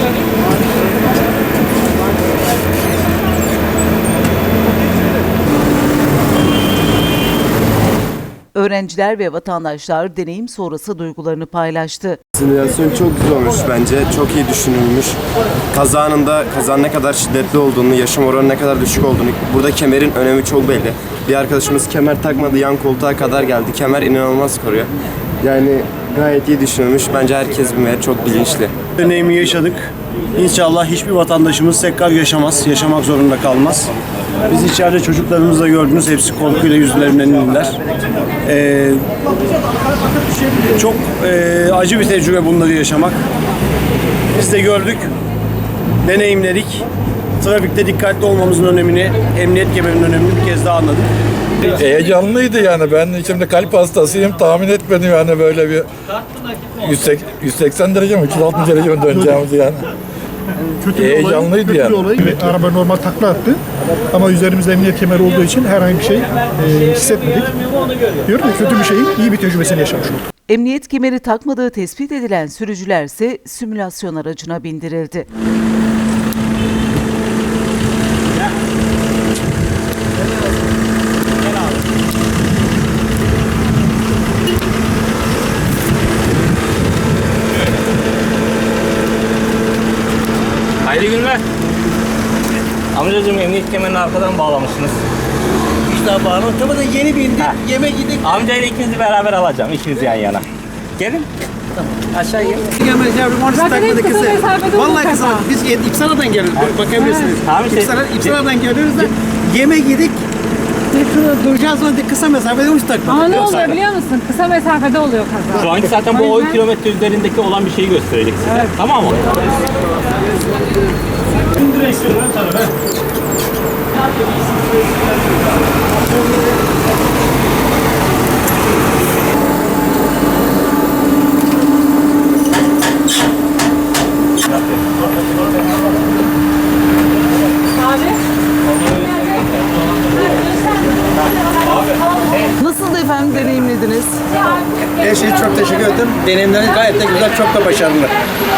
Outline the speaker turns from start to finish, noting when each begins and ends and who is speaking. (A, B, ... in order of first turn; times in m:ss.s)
0:08.6-0:12.2 A
0:12.4-0:15.2 B
0:15.7-0:24.9 B
0:25.4-0:28.7 B
0:29.0-0:33.9 C
0:34.5-0:37.8 C
0:38.4-0:39.1 C
0:40.7-0:43.2 C
0:44.4-0:45.1 C
0:46.0-0:46.9 C
0:47.4-0:51.1 C
0:51.7-0:55.9 D
0:56.8-0:59.9 D
1:00.8-1:07.6 E
1:00.9-1:02.2 D
1:08.2-1:10.2 E
1:10.5-1:15.3 A
1:30.8-1:31.4 F
1:32.9-1:35.0 F
1:35.9-1:38.2 G
1:38.2-1:40.5 F
1:41.0-1:41.3 F
1:42.1-1:42.6 F
1:42.5-1:50.2 G
1:43.6-1:45.4 H
1:46.8-1:48.4 F
1:50.9-1:53.8 G
1:53.1-1:55.6 H
1:55.5-1:59.2 F
2:22.6-2:24.2 A
2:25.0-2:28.1 G